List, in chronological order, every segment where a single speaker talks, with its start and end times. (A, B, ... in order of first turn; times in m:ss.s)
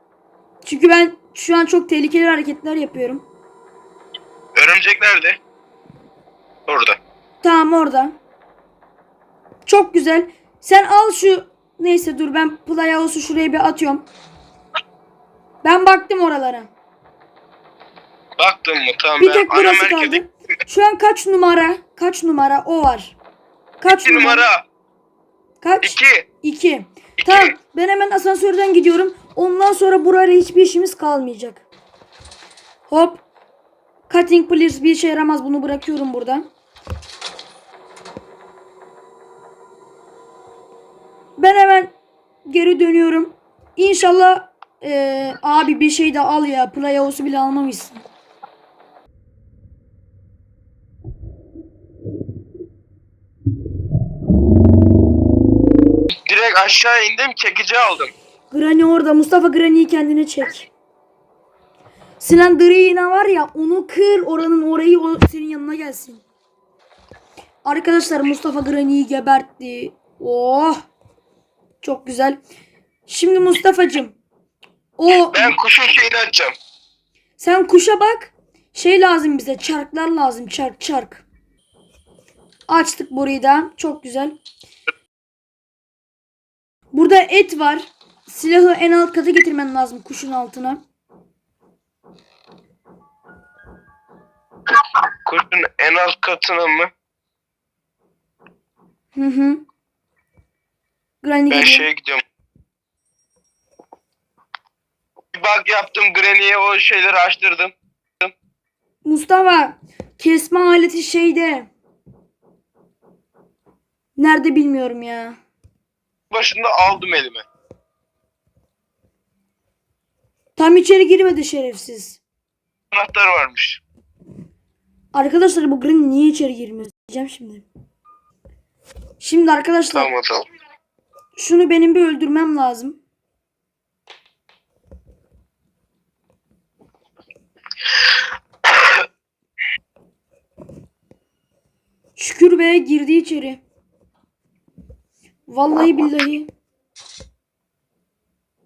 0:00.6-0:03.2 A
0:04.6-0:05.4 B
0:06.7-0:07.0 B
0:07.4-0:08.2 A
0:09.6-0:14.1 A
0:15.6-0:16.7 A
0:18.4-0:20.2 B
0:19.2-0:23.2 A
0:23.8-0:24.4 A
0:24.0-0:24.6 B
0:25.6-0:31.6 A
0:25.8-0:26.2 B
0:32.9-0:33.2 A
0:34.1-0:36.5 A
0:41.4-0:41.9 A
0:42.4-0:48.0 A
0:56.2-0:58.1 B
0:58.5-1:00.7 A
1:02.2-1:06.2 A
1:07.6-1:10.8 A
1:11.8-1:12.4 A
1:13.1-1:14.2 A
1:15.0-1:15.6 A
1:15.1-1:16.6 B
1:17.4-1:21.2 A
1:22.7-1:24.4 A
1:26.9-1:30.8 A
1:35.2-1:36.9 B
1:39.2-1:39.6 A
1:41.2-1:41.9 A
1:41.5-1:42.2 B
1:45.3-1:48.3 B
1:49.0-1:51.7 A
1:54.2-1:55.4 A
1:56.3-1:57.4 B
2:00.6-2:02.2 A
2:02.9-2:03.8 B
2:05.1-2:07.6 A
2:09.2-2:10.1 A
2:09.9-2:10.4 B
2:11.4-2:13.0 A
2:18.7-2:19.0 B
2:22.2-2:23.6 A
2:25.5-2:26.5 A